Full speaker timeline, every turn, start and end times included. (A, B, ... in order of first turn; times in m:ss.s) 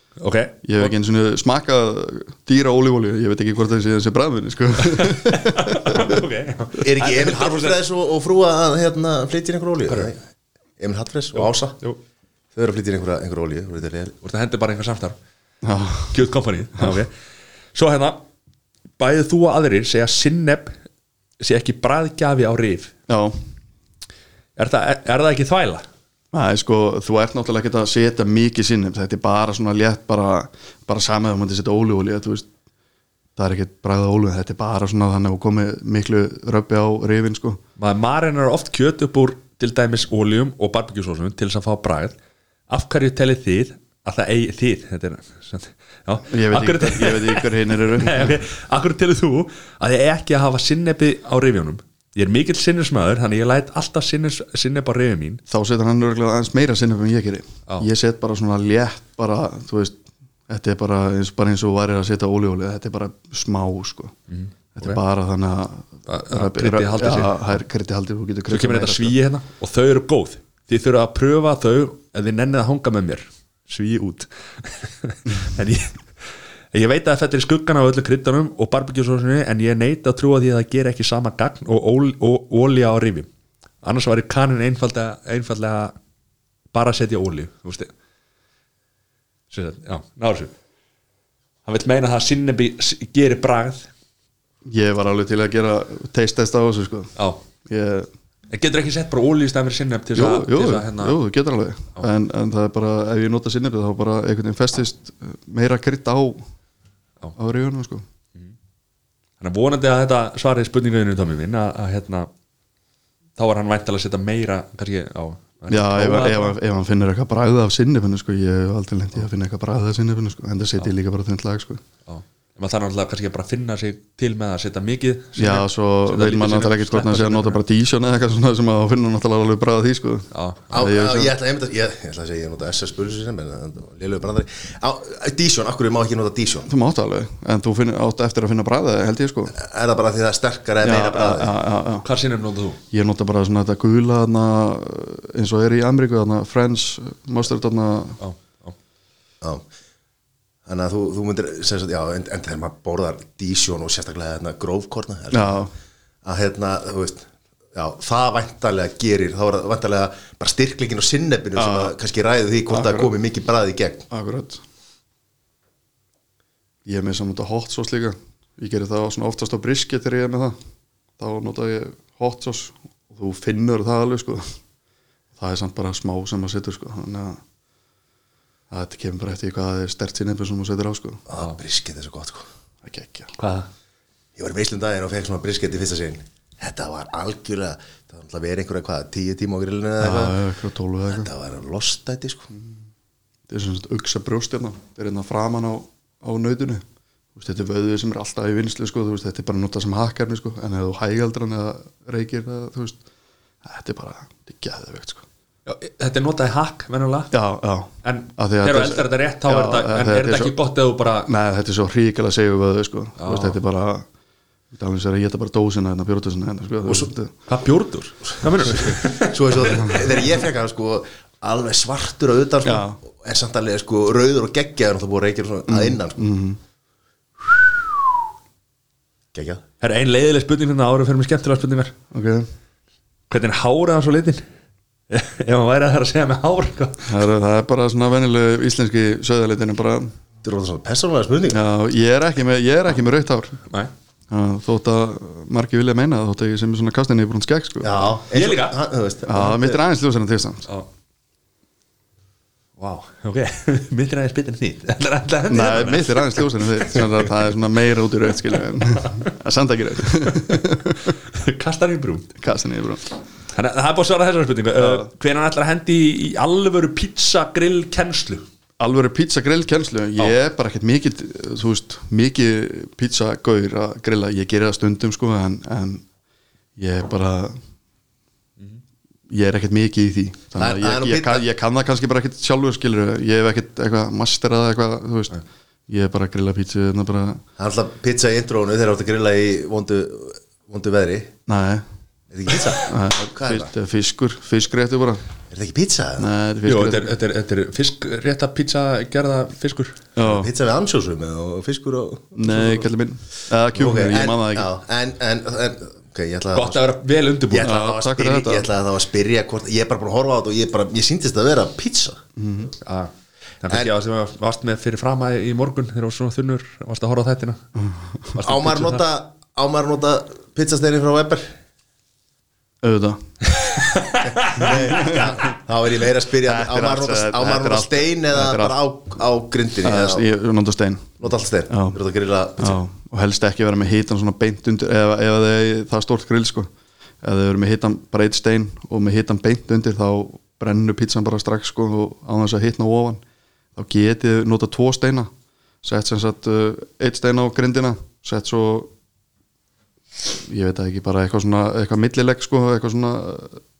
0:00.2-0:00.9 A
0:00.6-0:06.2 B
0:04.8-0:07.8 A
0:06.8-0:10.2 C
0:10.8-0:11.8 C
0:11.4-0:12.0 A
0:12.5-0:14.2 C
0:14.2-0:15.2 A
0:15.6-0:16.2 B
0:16.1-0:17.1 A
0:17.7-0:18.2 A
0:19.0-0:20.8 A
0:21.4-0:22.9 A
0:23.1-0:23.4 B
0:24.6-0:25.8 A
0:26.3-0:32.5 B
0:33.4-0:37.6 B
0:37.8-0:42.2 A
0:42.7-0:55.4 A
0:46.3-0:48.4 B
0:55.5-1:04.1 B
1:04.3-1:05.0 A
1:04.7-1:09.1 B
1:06.1-1:07.4 A
1:08.5-1:16.0 A
1:16.7-1:23.3 A
1:23.8-1:25.9 A
1:26.7-1:27.9 A
1:29.5-1:30.5 A
1:31.6-1:33.9 A
1:34.6-1:37.1 B
1:37.2-1:37.4 A
1:37.6-1:38.1 B
1:38.5-1:41.2 A
1:40.1-1:46.4 B
1:47.4-1:48.0 B
1:49.4-1:52.3 A
1:53.4-1:56.5 A
1:55.7-2:01.8 B
2:02.1-2:07.6 A
2:05.4-2:11.3 B
2:10.3-2:10.7 A
2:10.7-2:16.7 C
2:16.7-2:19.5 B
2:19.5-2:21.6 C
2:20.8-2:22.0 B
2:22.0-2:22.8 A
2:22.9-2:28.2 B
2:28.2-2:28.7 A
2:30.6-2:35.6 C
2:35.3-2:35.7 B
2:36.2-2:44.1 C
2:41.6-2:41.9 B
2:42.7-2:43.1 B
2:44.1-2:44.6 B
2:46.8-2:50.6 B
2:51.2-2:54.4 B
2:55.4-2:57.4 B
2:58.7-3:01.2 B
3:01.3-3:02.4 C
3:02.8-3:03.3 B
3:03.4-3:03.7 A
3:04.4-3:10.4 C
3:10.0-3:11.3 B
3:11.1-3:12.5 C
3:13.5-3:16.8 B
3:17.4-3:23.0 B
3:23.6-3:25.2 B
3:25.6-3:27.3 A
3:27.3-3:30.5 B
3:28.0-3:31.3 A
3:31.2-3:34.0 B
3:33.2-3:33.6 A
3:34.7-3:37.3 B
3:37.5-3:40.2 A
3:38.9-3:46.2 C
3:42.6-3:43.0 B
3:45.7-3:46.6 B
3:49.3-3:49.6 C
3:49.8-3:51.9 A
3:52.1-3:52.5 B
3:53.3-3:54.4 A
3:55.1-3:57.1 A
3:57.1-4:00.1 B
4:00.4-4:01.6 C
4:01.5-4:03.6 B
4:04.3-4:08.0 B
4:07.8-4:09.8 C
4:08.3-4:08.8 A
4:09.3-4:10.7 B
4:12.8-4:17.0 A
4:15.5-4:21.1 B
4:21.2-4:22.4 A
4:22.4-4:23.1 B
4:23.5-4:28.4 A
4:24.8-4:25.1 B
4:28.8-4:36.0 B
4:36.8-4:37.6 B
4:39.3-4:47.4 B
4:40.6-4:41.4 C
4:47.6-4:51.3 C
4:51.5-4:51.8 B
4:52.3-4:53.7 C
4:52.8-4:55.2 B
4:55.5-4:56.3 C
4:56.2-4:57.2 B
4:56.6-5:00.0 A
5:00.2-5:00.5 B
5:00.2-5:02.9 C
5:02.3-5:04.7 B
5:03.7-5:06.8 C
5:06.5-5:07.7 A
5:07.5-5:12.2 C
5:07.6-5:08.7 B
5:12.4-5:12.7 B
5:12.8-5:13.1 A
5:13.6-5:17.6 A
5:18.3-5:19.0 A
5:18.4-5:21.5 C
5:22.8-5:23.2 B
5:23.6-5:25.3 A
5:24.4-5:30.3 C
5:24.7-5:25.3 B
5:26.4-5:28.7 B
5:29.8-5:32.0 B
5:31.2-5:32.8 C
5:32.6-5:36.7 B
5:37.2-5:43.2 B
5:43.8-5:45.3 B
5:45.8-5:48.9 B
5:50.4-5:53.6 B